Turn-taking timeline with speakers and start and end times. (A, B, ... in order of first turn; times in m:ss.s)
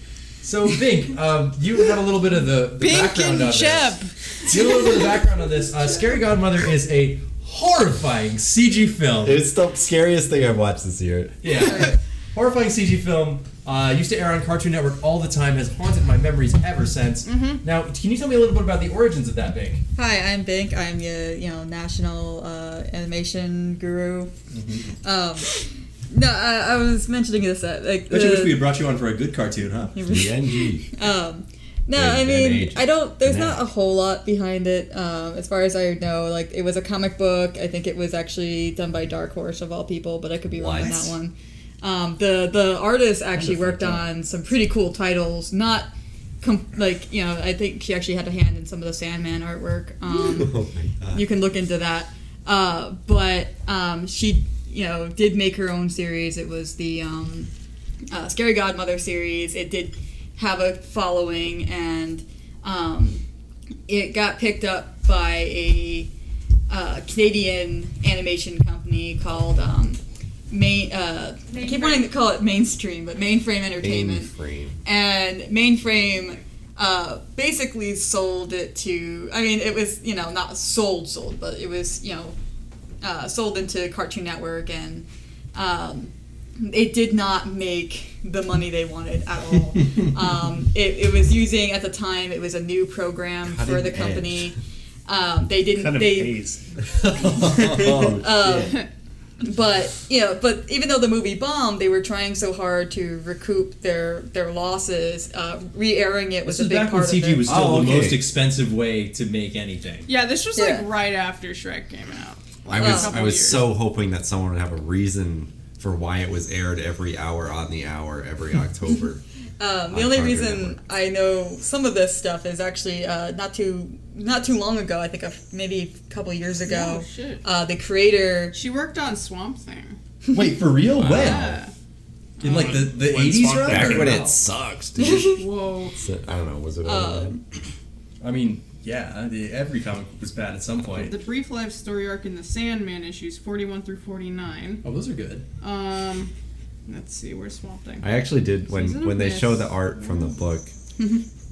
0:00.4-0:04.0 A
0:02.8-0:04.1 B
0:04.5-0:09.4 A
0:09.2-0:11.7 C
0:11.4-0:19.8 A
0:17.2-0:17.6 B
0:20.0-0:24.3 D
0:24.5-0:24.9 A
0:25.0-0:25.6 D
0:26.1-0:28.6 D
0:28.1-0:30.0 A
0:29.9-0:57.5 D
0:30.0-0:30.9 C
0:31.9-0:33.7 C
0:40.5-0:41.1 C
0:50.1-0:51.2 C
0:58.1-1:03.2 D
1:03.9-1:06.1 D
1:06.7-1:14.3 D
1:11.5-1:12.1 B
1:13.8-1:14.8 C
1:14.8-1:22.4 D
1:23.0-1:36.4 D
1:33.4-1:34.6 C
1:35.7-1:36.6 E
1:36.9-1:38.8 C
1:37.4-1:38.1 E
1:37.8-1:38.9 D
1:39.4-1:47.6 D
1:46.5-1:50.1 A
1:47.5-1:48.3 C
1:50.1-1:53.7 B
1:50.6-1:50.9 D
1:52.7-1:59.2 C
1:52.8-1:53.3 D
1:59.6-2:08.6 D
1:59.9-2:00.8 C
2:06.7-2:07.4 B
2:08.5-2:10.0 B
2:10.3-2:11.6 A
2:11.0-2:11.6 C
2:11.0-2:11.7 B
2:12.4-2:14.4 A
2:12.4-2:12.8 B
2:12.4-2:14.3 E
2:13.6-2:15.4 C
2:15.0-2:15.4 D
2:15.3-2:16.0 B
2:16.0-2:17.4 C
2:16.8-2:17.4 D
2:18.2-2:21.1 A
2:20.9-2:24.8 B
2:24.8-2:25.4 A
2:25.6-2:26.3 B
2:26.9-2:28.1 B
2:28.0-2:30.7 C
2:28.7-2:29.9 B